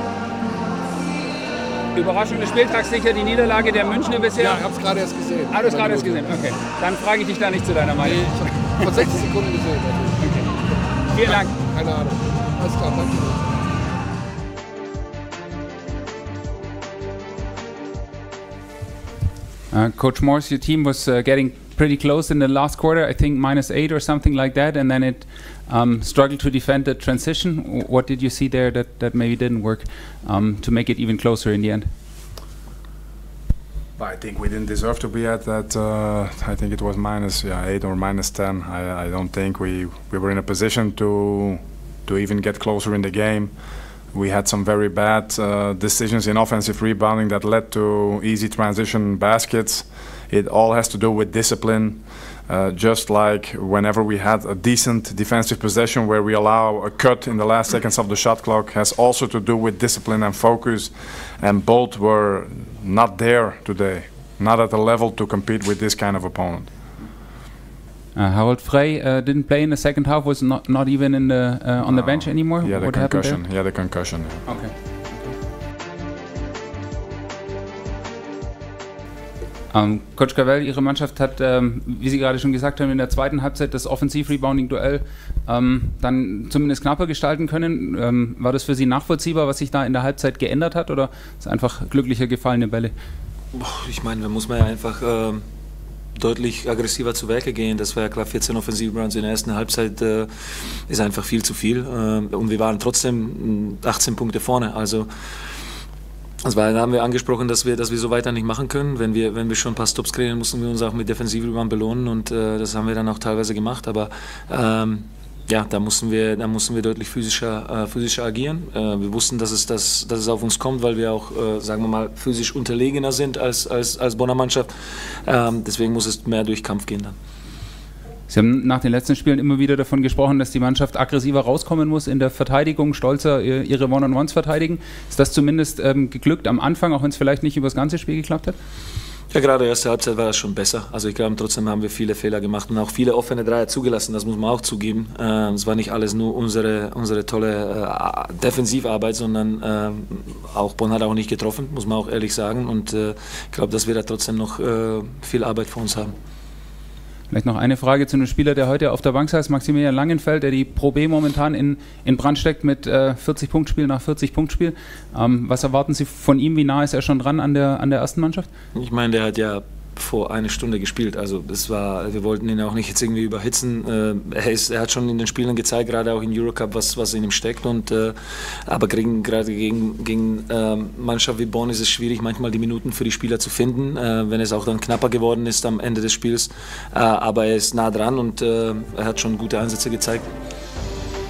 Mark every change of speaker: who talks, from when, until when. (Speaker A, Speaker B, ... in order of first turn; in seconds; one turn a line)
Speaker A: 1.9-4.6
Speaker B: 4.3-6.6
Speaker A: 5.5-9.1
Speaker B: 8.0-10.6
Speaker A: 11.1-11.5
Speaker B: 11.2-13.5
Speaker C: 19.7-31.9
Speaker D: 34.0-43.5
Speaker D: 44.1-66.9
Speaker C: 68.1-73.4
Speaker D: 71.8-74.4
Speaker C: 74.5-75.2
Speaker C: 79.7-92.9
Speaker E: 93.5-95.4
Speaker E: 96.1-105.1
Speaker E: 106.4-124.7
Speaker E: 125.2-127.1
Speaker C: 128.3-138.6
Speaker E: 139.3-156.1
Speaker C: 157.3-168.5
Speaker E: 168.7-178.1
Speaker E: 178.7-190.3